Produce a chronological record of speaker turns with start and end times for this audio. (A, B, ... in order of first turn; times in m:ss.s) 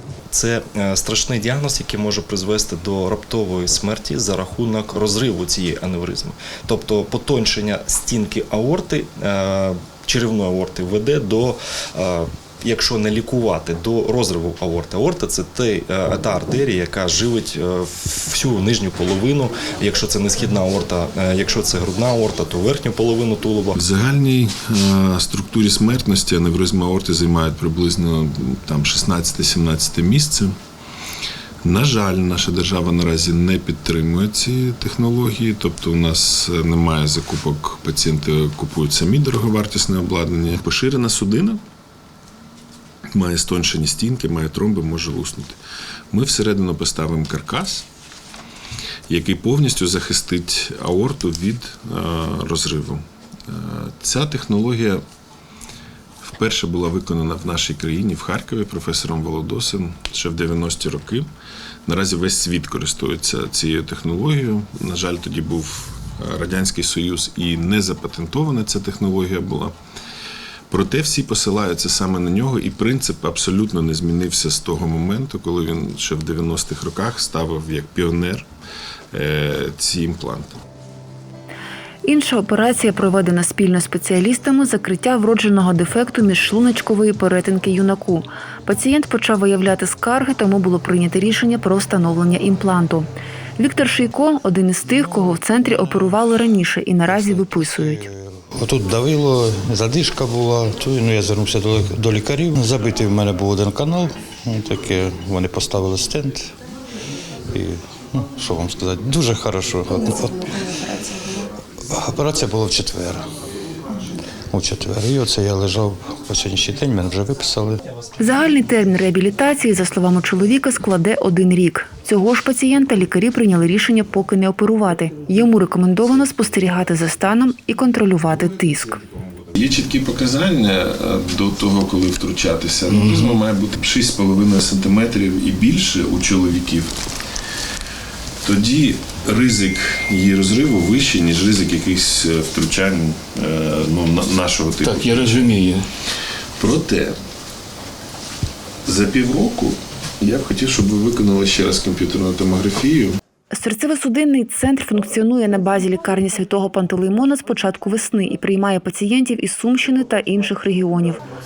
0:00.3-0:23.8 A
0:23.8-0:30.5 B
0:31.6-0:41.6 B
0:43.1-0:45.6 B
0:46.1-0:47.8 B
0:49.1-0:55.0 B
0:56.2-1:01.3 B
1:01.8-1:09.7 B
1:10.7-1:18.5 B
1:19.1-1:20.6 B
1:22.0-1:33.0 C
1:33.6-1:38.0 C
1:37.1-1:46.6 D
1:47.5-1:50.7 D
1:51.9-1:53.2 D
1:54.5-1:57.8 D
1:58.2-2:09.0 C
2:09.6-2:17.0 B
2:18.4-2:25.4 B
2:26.6-2:27.2 B
2:28.8-2:33.2 B
2:33.5-2:41.2 C